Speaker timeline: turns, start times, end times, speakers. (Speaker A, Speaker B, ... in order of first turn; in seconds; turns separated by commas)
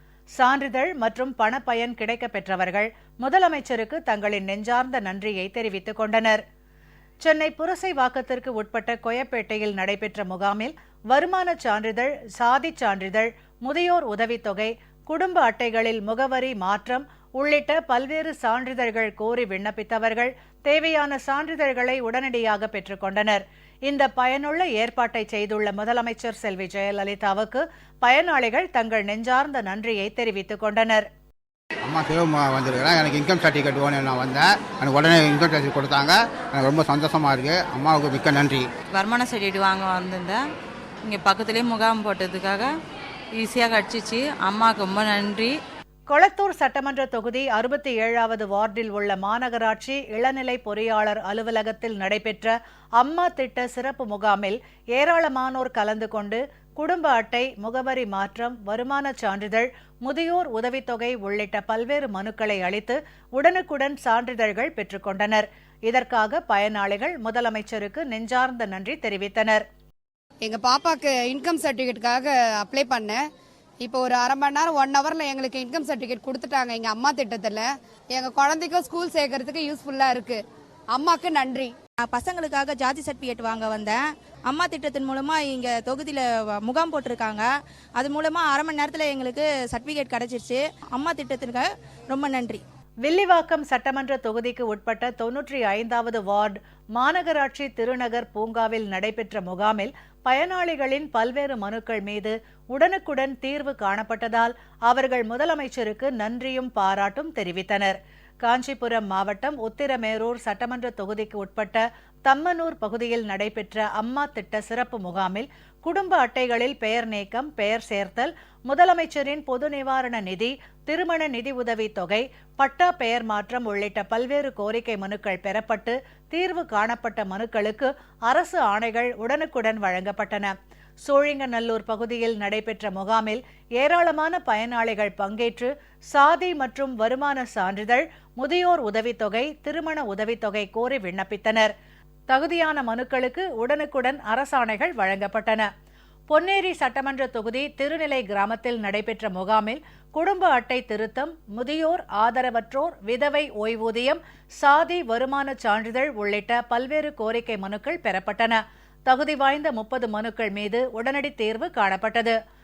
Speaker A: 0.4-6.4, Speaker A: 7.2-31.1, Speaker B: 31.8-38.7, Speaker C: 38.9-40.4, Speaker C: 41.0-42.7, Speaker C: 43.4-45.5, Speaker A: 46.1-69.6, Speaker D: 70.4-73.2, Speaker D: 73.8-81.7, Speaker E: 82.0-92.6, Speaker A: 93.0-141.7, Speaker A: 142.3-145.7, Speaker A: 146.3-162.3